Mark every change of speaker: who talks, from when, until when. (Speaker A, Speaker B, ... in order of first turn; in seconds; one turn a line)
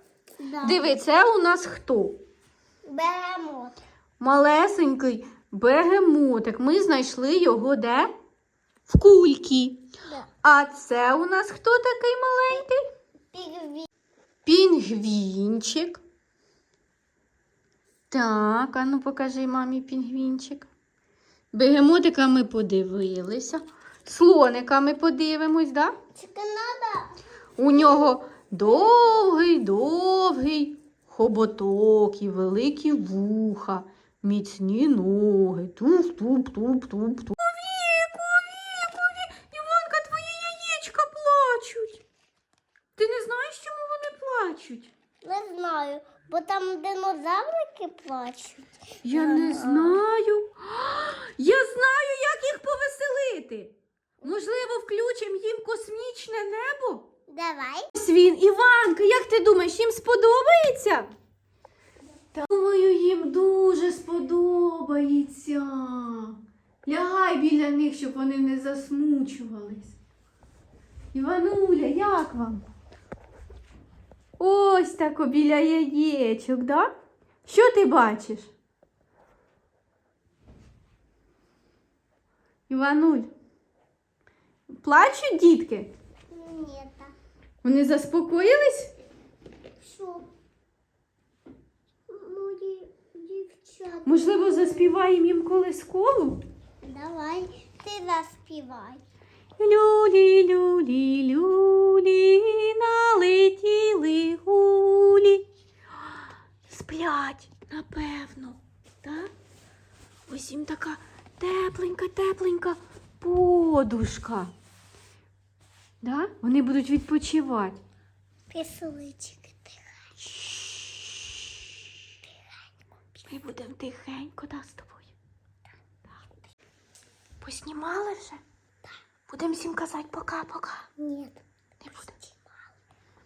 Speaker A: 0.4-0.9
Speaker B: 0.6-2.2
Speaker A: 2.8-3.8
Speaker B: 4.2-8.1
Speaker B: 8.9-9.8
Speaker B: 10.4-12.8
Speaker A: 13.3-13.9
Speaker B: 14.4-16.0
Speaker B: 18.1-20.7
Speaker B: 21.5-25.9
Speaker A: 26.1-27.1
Speaker B: 27.6-42.0
Speaker A: 27.7-28.1
Speaker B: 43.0-44.9
Speaker A: 45.2-50.0
Speaker B: 49.0-57.0
Speaker A: 57.3-57.9
Speaker B: 57.9-61.1
Speaker B: 62.3-69.9
Speaker B: 71.1-72.6
Speaker B: 74.4-76.9
Speaker B: 77.5-78.5
Speaker B: 82.7-83.3
Speaker B: 84.7-85.9
Speaker A: 86.3-87.1
Speaker B: 87.6-88.9
Speaker A: 89.8-90.3
Speaker A: 92.1-95.0
Speaker B: 94.0-96.4
Speaker A: 96.8-99.0
Speaker B: 99.6-105.4
Speaker B: 106.7-109.3
Speaker B: 110.3-114.5
Speaker B: 116.0-117.8
Speaker A: 118.5-119.8
Speaker B: 120.2-121.3
Speaker B: 123.2-125.1
Speaker B: 127.4-128.4
Speaker B: 129.3-130.9
Speaker A: 131.0-131.4
Speaker B: 131.8-132.1
Speaker A: 132.1-132.5